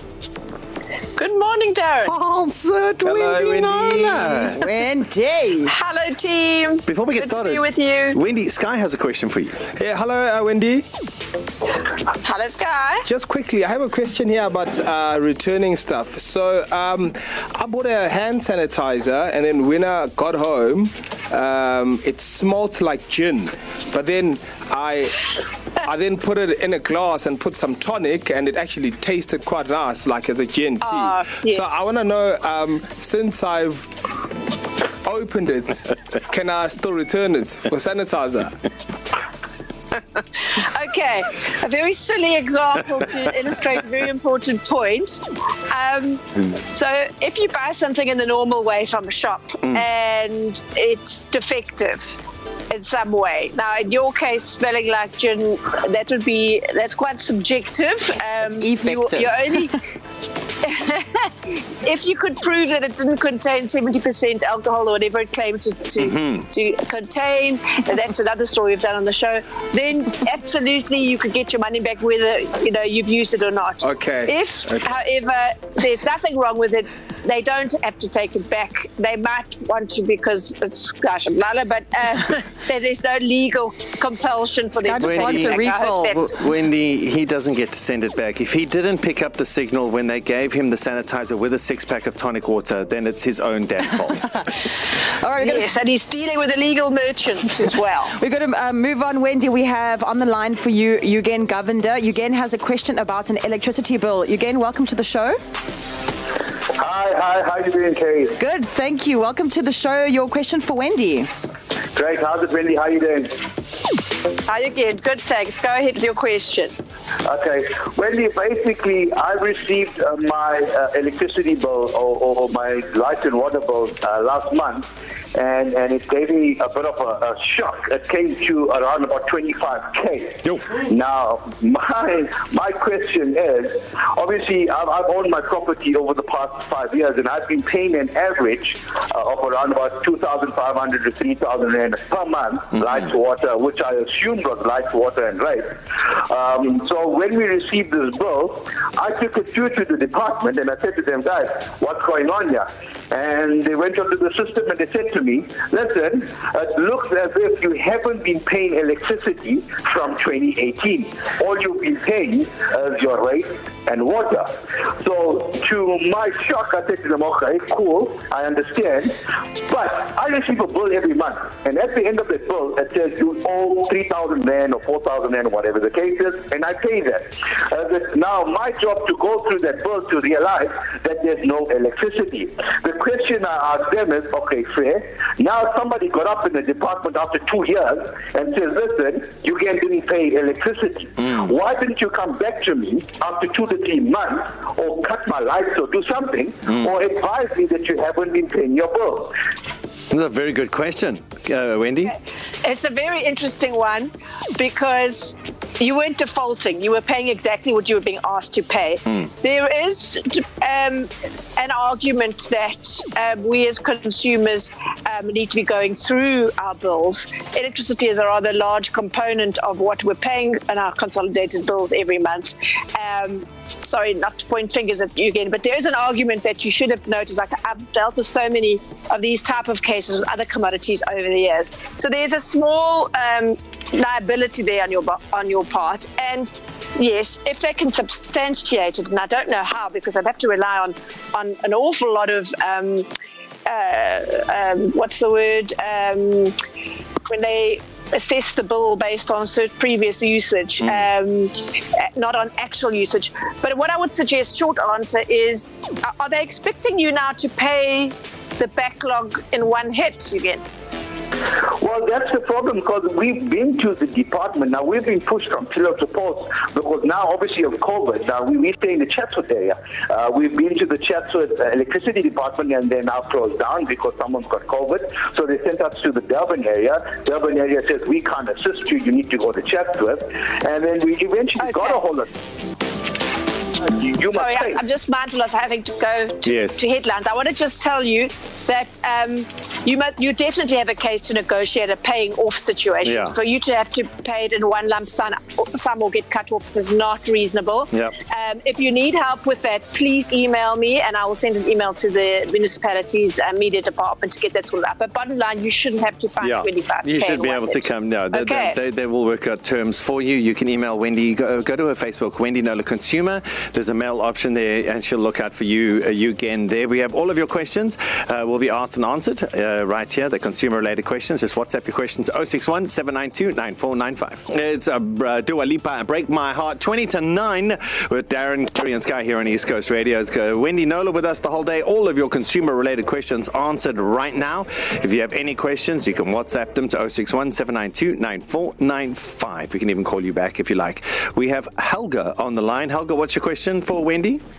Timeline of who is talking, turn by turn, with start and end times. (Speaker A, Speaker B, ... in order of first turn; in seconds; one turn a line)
Speaker A: 1.1-2.1
Speaker B: 2.0-4.6
Speaker C: 3.0-4.5
Speaker D: 4.5-5.7
Speaker A: 5.6-8.2
Speaker B: 6.9-9.5
Speaker C: 9.8-10.8
Speaker A: 12.1-13.0
Speaker C: 13.1-25.2
Speaker C: 25.8-33.9
Speaker A: 30.8-31.7
Speaker C: 35.0-38.5
Speaker A: 40.5-59.7
Speaker D: 58.5-59.8
Speaker A: 60.6-61.3
Speaker A: 61.8-86.3
Speaker B: 66.0-66.5
Speaker C: 73.8-74.9
Speaker D: 84.8-86.1
Speaker B: 85.0-85.5
Speaker B: 86.1-94.3
Speaker D: 95.2-95.6
Speaker A: 95.4-98.2
Speaker D: 98.1-105.4
Speaker E: 106.7-108.3
Speaker D: 108.4-111.3
Speaker E: 111.9-113.3
Speaker A: 114.5-116.7
Speaker E: 117.2-169.1
Speaker E: 169.7-199.3
Speaker B: 200.1-202.1
Speaker A: 202.1-243.1
Speaker A: 243.7-246.6
Speaker A: 247.2-260.6
Speaker E: 261.6-282.3
Speaker A: 281.6-282.0
Speaker E: 283.8-284.8
Speaker A: 284.3-308.8
Speaker B: 286.4-286.8
Speaker B: 293.0-293.3
Speaker B: 306.4-344.4